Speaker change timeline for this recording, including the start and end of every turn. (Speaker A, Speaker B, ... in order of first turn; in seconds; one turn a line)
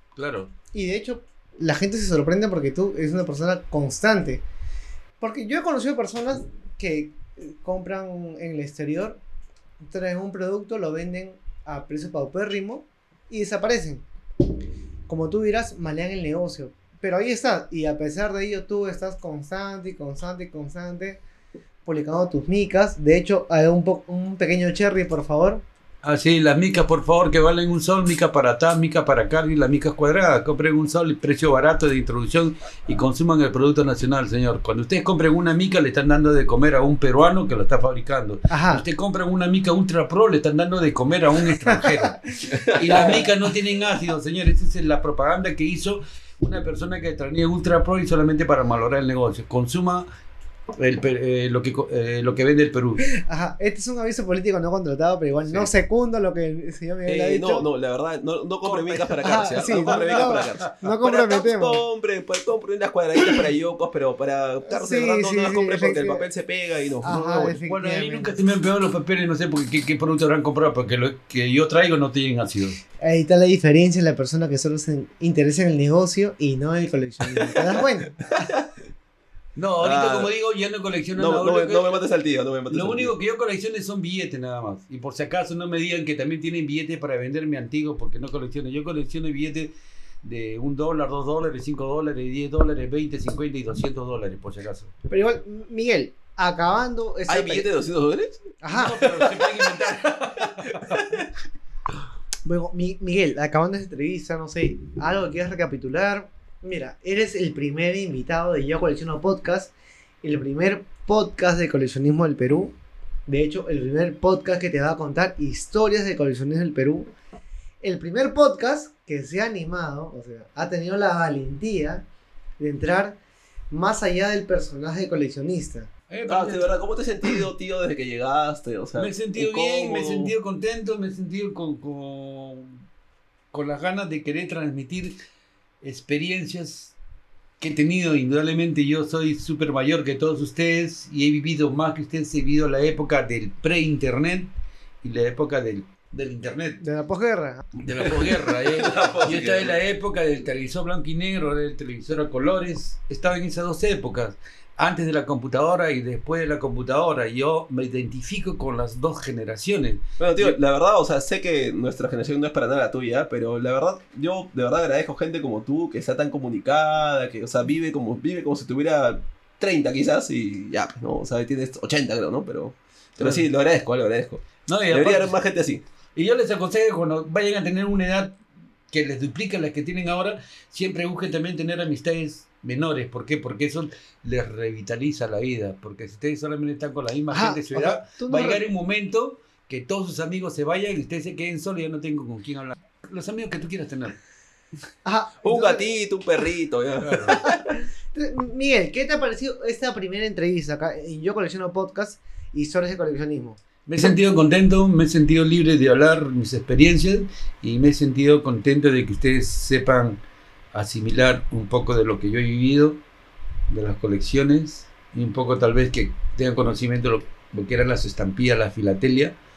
Speaker A: 0.1-0.5
Speaker B: 0.7-4.4
Speaker B: 5.2-9.2
Speaker B: 9.8-14.0
Speaker B: 15.1-21.2
Speaker B: 21.8-25.6
Speaker A: 26.0-50.1
Speaker B: 38.5-38.8
Speaker C: 42.5-43.3
Speaker A: 50.8-53.0
Speaker B: 53.0-57.6
Speaker C: 57.0-67.3
Speaker B: 59.2-61.8
Speaker A: 59.7-60.6
Speaker B: 64.7-66.2
Speaker B: 67.0-68.4
Speaker A: 67.1-72.8
Speaker B: 73.0-78.5
Speaker A: 79.5-82.0
Speaker C: 79.8-80.3
Speaker C: 81.2-83.1
Speaker A: 82.7-89.7
Speaker A: 90.2-94.9
Speaker B: 95.1-97.7
Speaker C: 97.3-98.5
Speaker B: 98.6-99.2
Speaker A: 98.7-101.0
Speaker C: 99.2-99.5
Speaker C: 100.4-101.3
Speaker B: 102.4-109.7
Speaker B: 110.2-112.7
Speaker B: 113.3-117.1
Speaker B: 117.8-122.0
Speaker B: 122.6-123.2
Speaker B: 123.7-125.9
Speaker A: 126.1-126.7
Speaker C: 126.3-130.3
Speaker A: 129.0-132.8
Speaker A: 133.5-135.1
Speaker A: 135.8-136.9
Speaker A: 137.6-144.5
Speaker A: 145.0-146.8
Speaker B: 146.8-147.7
Speaker A: 147.8-160.5
Speaker C: 148.2-149.8
Speaker C: 160.2-175.8
Speaker A: 173.2-173.4
Speaker A: 174.7-175.3
Speaker A: 176.2-178.4
Speaker A: 178.9-194.2
Speaker B: 187.3-188.6
Speaker B: 195.0-195.9
Speaker C: 195.4-197.6
Speaker A: 197.0-197.4
Speaker B: 197.4-203.6
Speaker A: 203.8-210.2
Speaker A: 210.7-213.0
Speaker A: 213.7-219.3